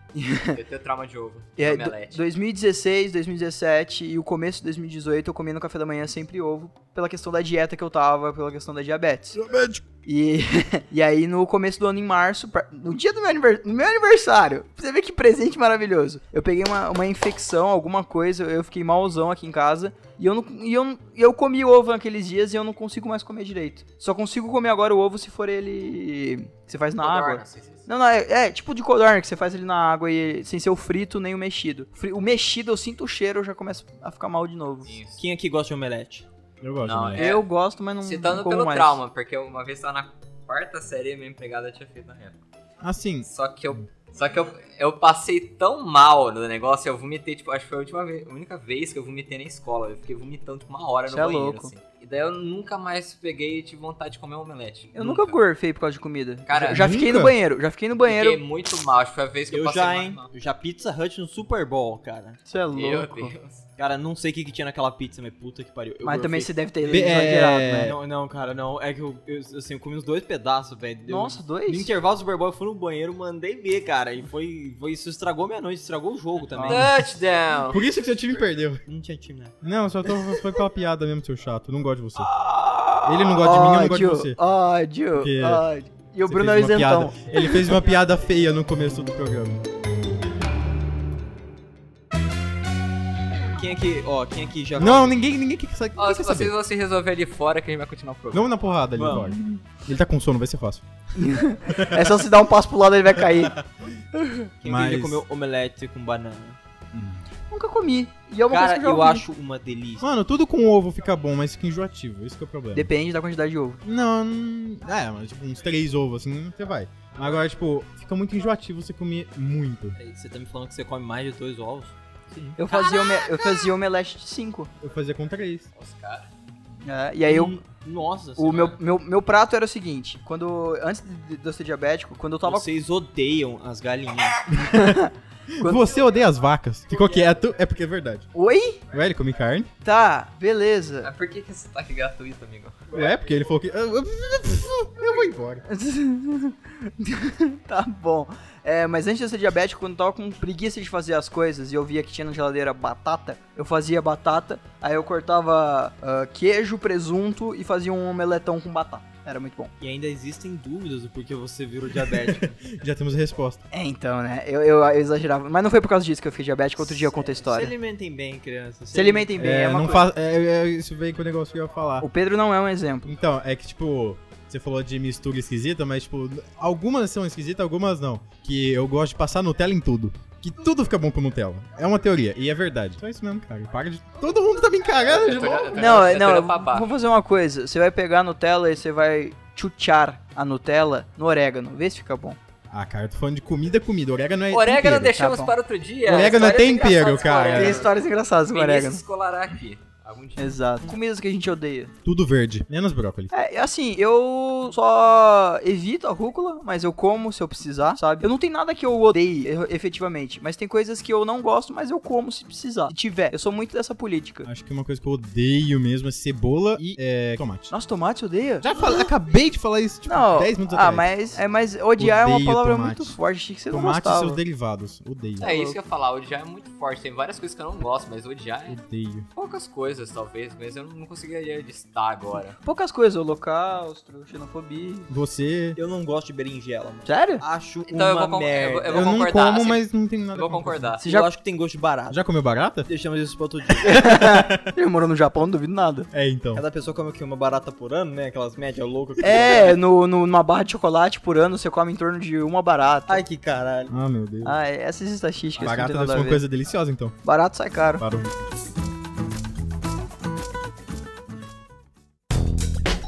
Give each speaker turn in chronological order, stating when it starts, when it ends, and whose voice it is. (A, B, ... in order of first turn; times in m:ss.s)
0:00.1-0:00.6 A
0:00.5-0:02.2 B
0:01.6-0:09.4 A
0:09.3-0:09.8 C
0:10.0-0:34.9 A
0:27.0-0:27.9 B
0:34.8-0:35.2 B
0:35.2-0:36.2 D
0:36.6-0:37.2 C
0:36.8-0:37.4 B
0:37.2-0:39.0 A
0:38.0-0:42.4 B
0:42.8-0:43.3 C
0:43.3-0:55.4 B
0:51.1-0:51.7 A
0:54.9-0:58.4 A
0:56.5-0:56.9 B
0:56.7-0:57.4 C
0:58.0-1:00.3 B
0:59.5-1:02.4 D
1:02.5-1:03.3 A
1:02.7-1:03.7 B
1:03.8-1:16.9 D
1:06.0-1:07.9 A
1:06.9-1:08.0 C
1:11.1-1:11.9 A
1:16.5-1:16.9 A
1:16.7-1:17.8 B
1:17.6-1:18.8 C
1:18.8-1:19.5 D
1:19.6-1:22.3 C
1:20.1-1:20.4 A
1:22.3-1:27.6 A
1:23.0-1:24.4 C
1:25.2-1:25.6 C
1:26.2-1:29.6 C
1:33.6-1:35.1 D
1:34.8-1:36.5 C
1:36.0-1:38.5 B
1:38.3-1:40.8 C
1:38.9-1:39.4 D
1:41.1-1:43.6 A
1:41.6-1:42.1 C
1:43.2-1:43.8 C
1:44.1-1:44.5 A
1:44.6-1:46.6 D
1:44.6-1:45.2 C
1:46.9-1:47.2 C
1:47.5-1:49.2 A
1:48.5-1:50.1 D
1:50.0-1:52.9 C
1:52.7-1:53.8 A
1:53.8-2:00.0 C
2:00.0-2:02.6 D
2:02.6-2:04.7 A
2:02.7-2:03.4 B
2:04.8-2:05.6 C
2:05.7-2:06.3 B
2:06.8-2:07.6 A
2:07.3-2:08.8 D
2:08.4-2:12.6 A
2:12.4-2:14.4 D
2:14.5-2:15.0 C
2:14.7-2:16.0 A
2:15.6-2:18.3 C
2:18.3-2:18.8 A
2:18.9-2:19.7 C
2:19.8-2:21.1 A
2:21.0-2:22.8 B
2:22.9-2:25.6 C
2:25.7-2:39.7 A
2:39.8-2:42.6 D
2:42.0-2:43.6 C
2:43.7-2:47.7 A
2:46.8-2:49.3 D
2:48.9-2:50.1 A
2:49.4-2:52.1 C
2:52.0-2:53.1 A
2:53.0-3:06.0 C
3:05.1-3:06.9 B
3:05.7-3:12.4 A
3:12.7-3:15.2 C
3:14.5-3:20.6 B
3:15.1-3:15.5 A
3:16.0-3:17.9 C
3:17.5-3:19.0 A
3:20.4-3:21.9 A
3:22.0-3:23.3 C
3:23.3-3:34.5 A
3:34.4-3:37.7 C
3:37.7-3:39.0 A
3:38.6-3:41.1 C
3:40.1-3:44.4 A
3:42.0-3:43.2 C
3:43.7-3:45.5 C
3:45.4-3:48.8 B
3:45.4-3:45.8 A
3:48.7-3:49.2 C
3:49.3-3:52.6 B
3:52.6-3:55.1 A
3:55.1-3:55.8 C
3:55.8-3:59.2 D
3:57.0-3:57.4 A
3:57.8-4:01.0 B
3:58.9-4:01.0 C
4:01.0-4:01.3 A
4:01.0-4:02.2 D
4:02.1-4:02.9 C
4:02.8-4:04.0 D
4:03.8-4:06.1 A
4:04.1-4:04.7 C
4:06.1-4:06.6 C
4:06.5-4:09.8 D
4:09.2-4:13.2 A
4:13.1-4:13.9 D
4:13.9-4:14.6 C
4:14.4-4:16.4 A
4:15.6-4:17.2 C
4:17.2-4:18.0 A
4:18.0-4:18.3 C